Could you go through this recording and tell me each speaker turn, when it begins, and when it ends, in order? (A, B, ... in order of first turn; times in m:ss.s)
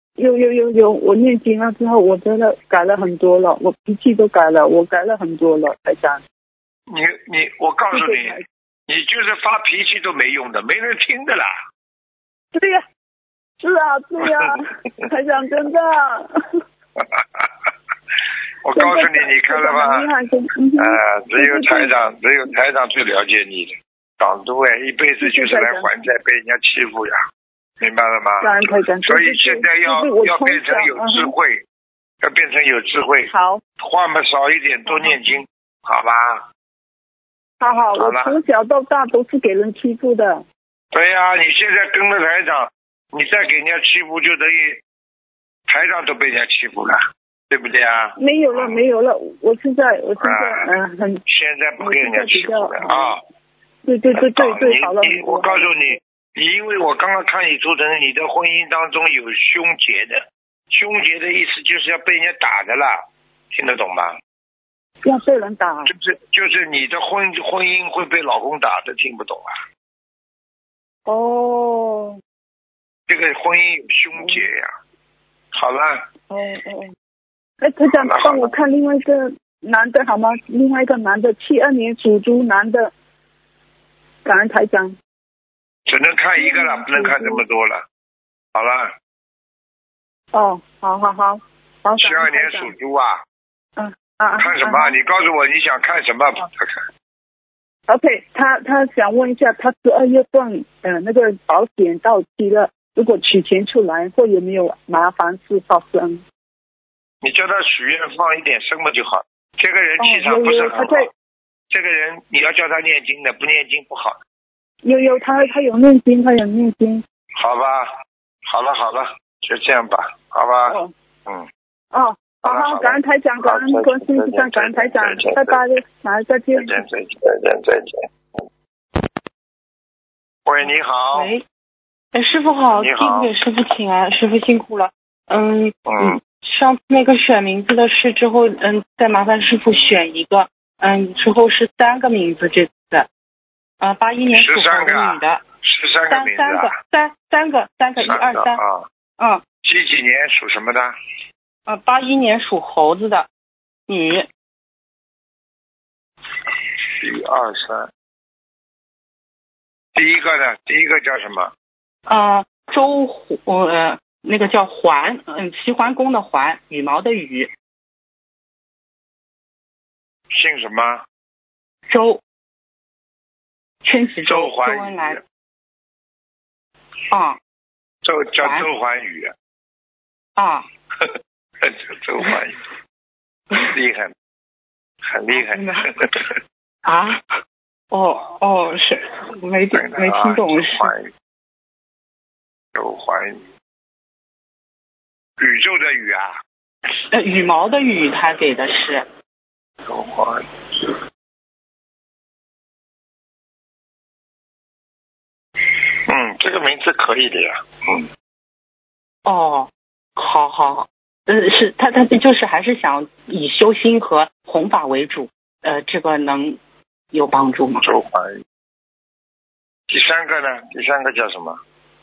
0:00.2-0:06.2 A
0:06.9-0:11.5 B
0:07.9-0:08.4 A
0:12.5-0:12.8 A
0:13.6-0:16.6 A
0:17.0-0:17.7 B
0:18.6-0:20.1 B
0:18.7-0:21.9 A
0:20.8-0:27.2 B
0:25.2-0:25.9 A
0:27.8-0:31.6 B
0:28.4-0:31.3 A
0:32.2-0:36.4 B
0:33.3-0:33.6 A
0:34.9-0:35.4 A
0:37.6-0:40.4 A
0:38.0-0:38.4 B
0:40.9-0:44.8 B
0:45.7-0:48.8 B
0:48.2-0:51.2 A
0:50.2-0:50.7 B
0:51.3-0:53.2 B
0:51.8-0:53.2 A
0:53.8-0:56.0 A
0:54.1-1:04.2 B
1:05.0-1:05.9 A
1:05.9-1:09.6 B
1:11.1-1:12.2 A
1:13.1-1:14.7 B
1:14.2-1:14.5 A
1:15.5-1:16.0 B
1:16.3-1:16.9 A
1:17.6-1:22.9 A
1:17.9-1:18.5 B
1:24.2-1:25.0 A
1:25.9-1:27.8 B
1:26.4-1:27.4 A
1:28.5-1:28.9 B
1:30.3-1:32.7 A
1:32.0-1:33.2 B
1:33.8-1:35.0 A
1:34.4-1:36.9 B
1:37.9-1:46.2 A
1:47.2-1:51.1 B
1:50.0-1:51.1 A
1:51.7-1:54.2 B
1:54.8-1:57.0 A
1:57.4-1:57.9 B
1:58.5-2:01.5 B
2:00.7-2:00.9 A
2:01.9-2:06.8 A
2:02.4-2:05.6 B
2:06.5-2:08.1 B
2:10.5-2:11.3 B
2:11.1-2:11.4 C
2:12.1-2:23.1 C
2:12.7-2:13.3 B
2:15.9-2:16.2 B
2:23.8-2:25.4 C
2:24.3-2:26.7 B
2:26.1-2:28.6 C
2:28.0-2:28.8 B
2:29.6-2:30.9 B
2:31.7-2:33.3 C
2:33.9-2:34.3 C
2:36.9-2:37.9 B
2:40.0-2:41.5 B
2:42.1-2:47.5 C
2:50.3-2:51.0 B
2:51.9-2:52.2 C
2:53.8-2:55.2 C
2:54.2-2:55.2 B
2:57.1-2:57.4 C
2:58.0-2:59.3 B
2:58.4-2:58.7 C
3:00.4-3:00.7 C
3:01.0-3:02.6 B
3:03.6-3:04.1 B
3:05.1-3:06.4 B
3:05.3-3:05.9 C
3:06.8-3:07.3 C
3:07.9-3:10.9 C
3:09.7-3:11.1 B
3:12.7-3:13.5 B
3:15.4-3:16.4 B
3:17.1-3:19.1 C
3:19.9-3:21.0 B
3:26.1-3:28.1 B
3:29.2-3:36.6 C
3:37.1-3:37.8 C
3:37.8-3:38.4 B
3:39.9-3:41.6 B